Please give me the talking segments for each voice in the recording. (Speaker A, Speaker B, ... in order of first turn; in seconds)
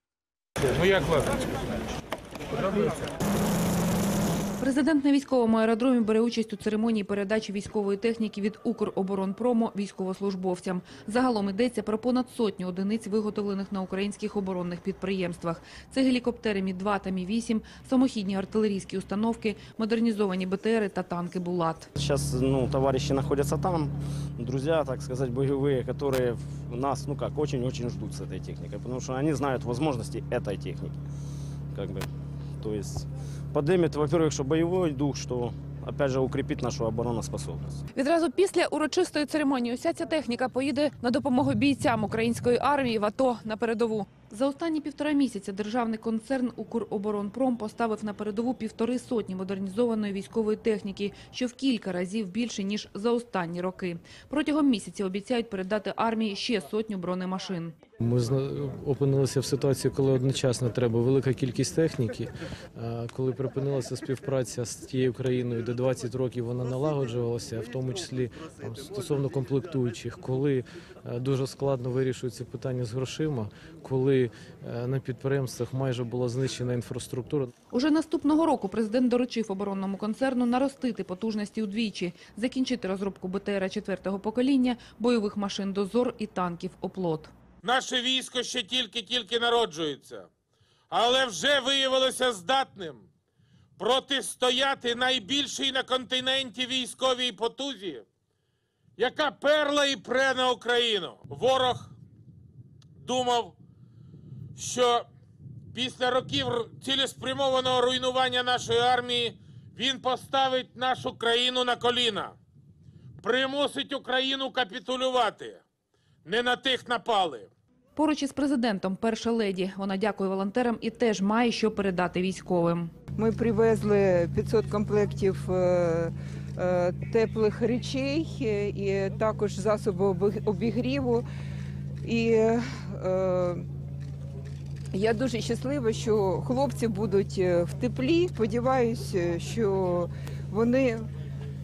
Speaker A: 0.6-1.4, 87.6-90.3, 90.9-93.1, 93.8-98.0, 99.0-101.9, 103.0-103.6, 104.5-105.1, 105.7-112.4, 113.2-115.6, 116.2-117.5
Speaker B: 4.6-21.9, 37.9-57.7, 77.7-87.3, 117.9-122.9
Speaker C: 22.0-30.9, 31.7-37.8
Speaker D: 58.0-77.5
Speaker E: 123.2-131.2, 132.0-133.7, 134.9-141.1